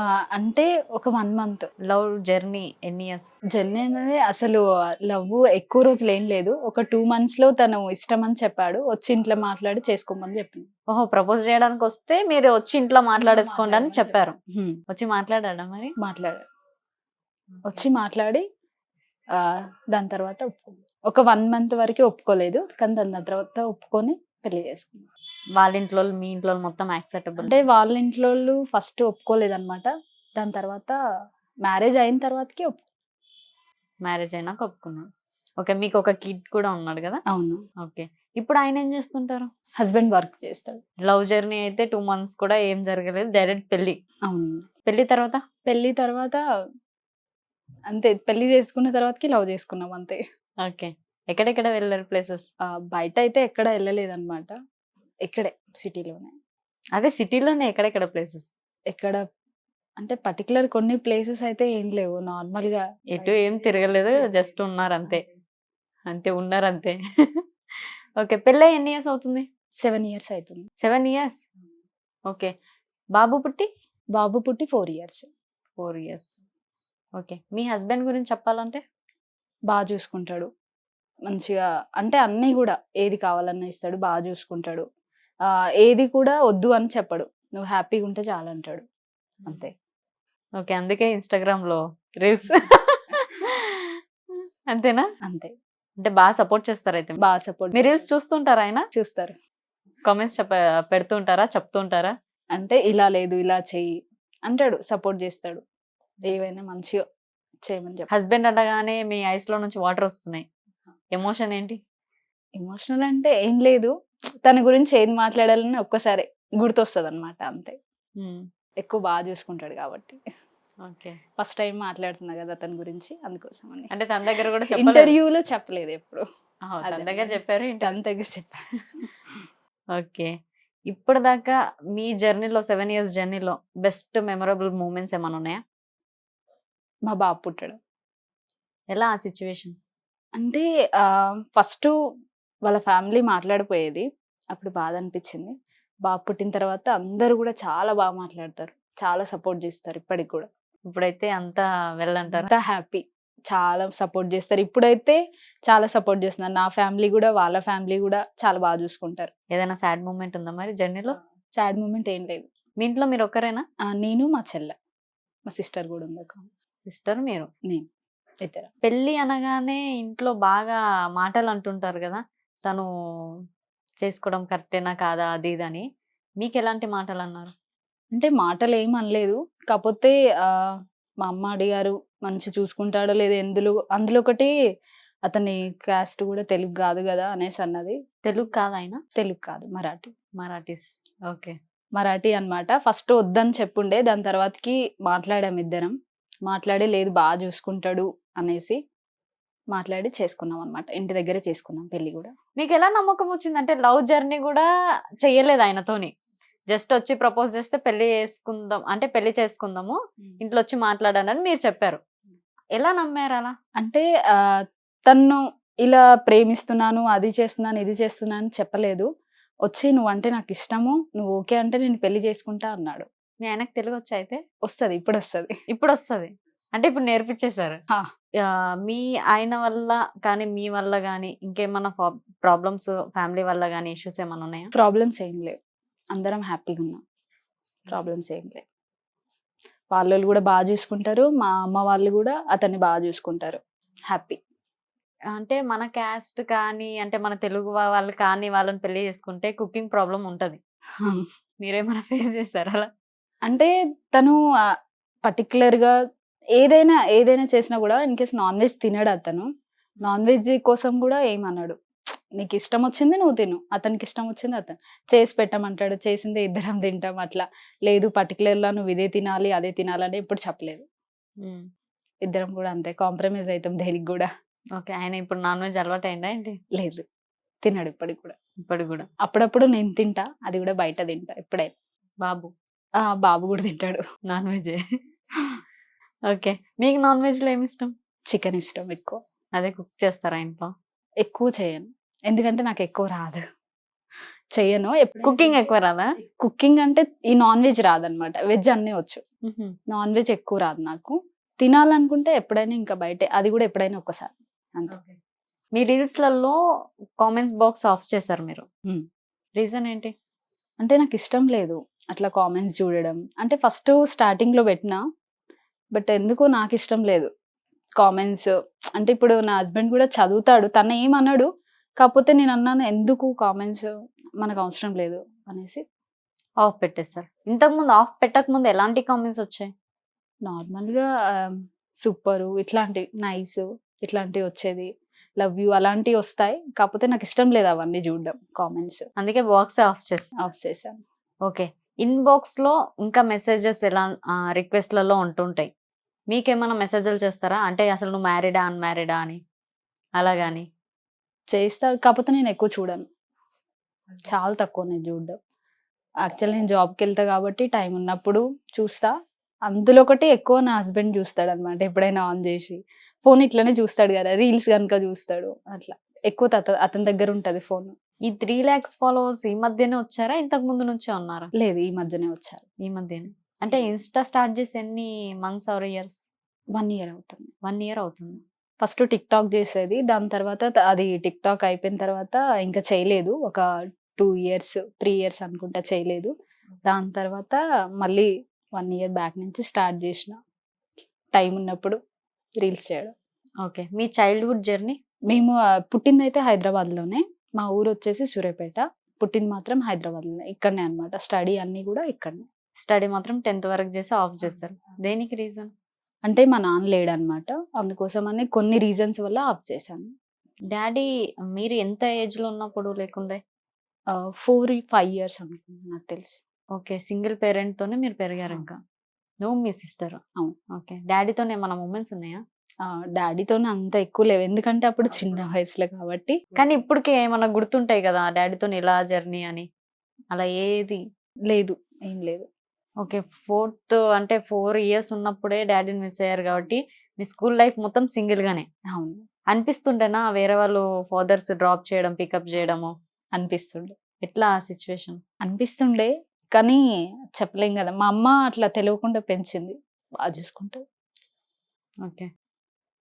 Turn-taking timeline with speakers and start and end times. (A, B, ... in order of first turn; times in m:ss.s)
0:00.3-0:01.7 A
0:01.8-0:03.3 B
0:03.5-0:10.7 A
0:10.9-0:14.4 B
0:13.2-0:14.8 A
0:14.9-0:15.9 B
0:16.0-0:16.4 A
0:17.6-0:18.4 A
0:19.4-0:25.1 A
0:25.6-0:27.6 B
0:27.4-0:30.9 A
0:31.6-0:32.8 A
0:34.0-0:35.1 B
0:35.6-0:37.2 B
0:37.3-0:37.6 A
0:37.8-0:39.5 B
0:39.8-0:40.8 A
0:41.0-0:44.0 B
0:44.3-0:44.7 A
0:44.8-0:45.4 B
0:45.6-0:46.4 A
0:47.9-0:50.2 A
0:50.6-0:52.5 B
0:52.7-0:54.5 A
0:55.2-0:56.3 A
0:57.0-0:58.5 B
0:58.9-0:59.2 A
1:00.0-1:02.8 A
1:03.1-1:05.2 B
1:06.1-1:09.4 B
1:09.8-1:10.7 A
1:10.8-1:11.4 B
1:13.2-1:13.7 B
1:14.2-1:15.3 A
1:15.8-1:16.3 B
1:17.2-1:18.8 B
1:19.7-1:20.5 A
1:21.3-1:24.8 A
1:25.8-1:28.8 A
1:29.4-1:29.7 A
1:30.6-1:34.0 B
1:34.7-1:35.0 B
1:35.2-1:35.5 A
1:36.0-1:37.2 B
1:37.2-1:38.0 A
1:37.7-1:38.9 B
1:38.9-1:39.3 A
1:40.0-1:42.1 B
1:42.6-1:44.0 A
1:44.5-1:45.6 A
1:46.2-1:47.0 A
1:47.6-1:48.1 A
1:48.1-1:50.4 B
1:51.1-1:51.8 B
1:52.6-1:53.9 A
1:54.4-1:57.8 A
1:58.2-1:58.4 B
1:58.8-2:00.2 A
2:00.8-2:01.2 B
2:01.4-2:03.9 A
2:03.9-2:05.2 B
2:04.7-2:06.2 A
2:06.6-2:08.0 B
2:06.8-2:09.1 A
2:09.9-2:10.3 B
2:10.9-2:15.6 B
2:17.1-2:17.8 A
2:18.9-2:19.7 B
2:20.4-2:20.6 A
2:21.6-2:21.9 A
2:22.7-2:25.5 A
2:26.0-2:30.5 A
2:30.8-2:32.5 B
2:32.4-2:35.2 A
2:35.7-2:39.3 A
2:39.5-2:41.2 B
2:41.6-2:42.4 A
2:42.8-2:43.6 B
2:43.9-2:44.7 A
2:45.5-2:46.4 A
2:46.8-2:47.5 B
2:48.4-2:48.7 A
2:48.8-2:52.9 B
2:54.0-2:55.8 B
2:56.4-2:57.5 B
2:58.1-3:00.1 A
3:01.2-3:04.5 A
3:05.3-3:08.0 A
3:08.2-3:09.0 B
3:09.2-3:10.1 A
3:10.4-3:11.6 B
3:12.0-3:15.9 A
3:16.4-3:18.8 A
3:19.7-3:22.3 A
3:22.6-3:24.6 B
3:25.2-3:26.1 B
3:26.7-3:32.0 B
3:32.7-3:33.5 B
3:35.1-3:39.1 A
3:39.7-3:43.0 A
3:43.4-3:44.4 B
3:44.7-3:45.5 A
3:45.7-3:47.8 B
3:48.4-3:54.7 B
3:54.7-3:55.6 A
3:56.1-3:57.0 A
3:57.9-3:58.6 A
3:59.9-4:03.6 A
4:04.1-4:04.4 A
4:05.3-4:10.6 B
4:11.6-4:12.9 B
4:13.5-4:14.4 A
4:15.2-4:15.9 A
4:16.6-4:19.5 A
4:20.0-4:21.8 A
4:22.4-4:30.8 A
4:32.2-4:34.3 A
4:34.8-4:36.6 B
4:36.8-4:37.0 A
4:37.6-4:38.3 A
4:38.7-4:39.1 B
4:39.2-4:41.7 A
4:42.2-4:42.5 B
4:43.0-4:44.0 A
4:44.3-4:44.8 B
4:46.3-4:47.9 B
4:48.3-4:49.2 A
4:49.5-4:50.7 B
4:51.2-4:53.4 A
4:54.5-4:55.5 A
4:55.2-4:56.1 B
4:56.4-4:59.2 A
4:59.4-4:59.8 B
4:59.9-5:04.9 A
5:04.9-5:05.2 B
5:05.7-5:06.6 B
5:07.2-5:08.6 B
5:09.6-5:10.1 B
5:10.8-5:15.0 A
5:15.9-5:17.3 A
5:18.0-5:21.5 A
5:22.0-5:23.9 A
5:24.4-5:25.8 A
5:26.6-5:29.7 B
5:30.4-5:34.9 A
5:35.4-5:39.0 A
5:39.2-5:40.3 B
5:40.4-5:41.0 A
5:41.4-5:45.7 B
5:46.3-5:49.4 B
5:50.2-5:50.6 B
5:51.5-5:53.1 A
5:54.2-5:55.4 A
5:56.3-5:59.1 A
5:59.7-6:07.9 A
6:08.3-6:11.5 B
6:11.6-6:12.6 A
6:12.8-6:16.2 B
6:16.7-6:17.5 A
6:17.6-6:18.4 B
6:18.8-6:23.6 A
6:24.2-6:26.3 A
6:26.8-6:30.4 A
6:31.3-6:32.0 A
6:32.6-6:33.1 A
6:33.6-6:35.0 B
6:35.3-6:42.4 A
6:42.8-6:45.7 B
6:46.2-6:50.1 A
6:50.7-6:53.4 B
6:54.1-6:56.4 A
6:56.8-6:58.8 B
6:59.4-7:00.2 B
7:00.7-7:02.4 B
7:02.8-7:06.4 A
7:06.6-7:09.6 B
7:10.3-7:11.0 B
7:11.5-7:12.5 A
7:13.0-7:18.6 B
7:18.9-7:19.2 A
7:19.5-7:22.9 B
7:23.4-7:23.9 A
7:24.2-7:25.2 B
7:25.4-7:26.8 A
7:27.4-7:30.8 A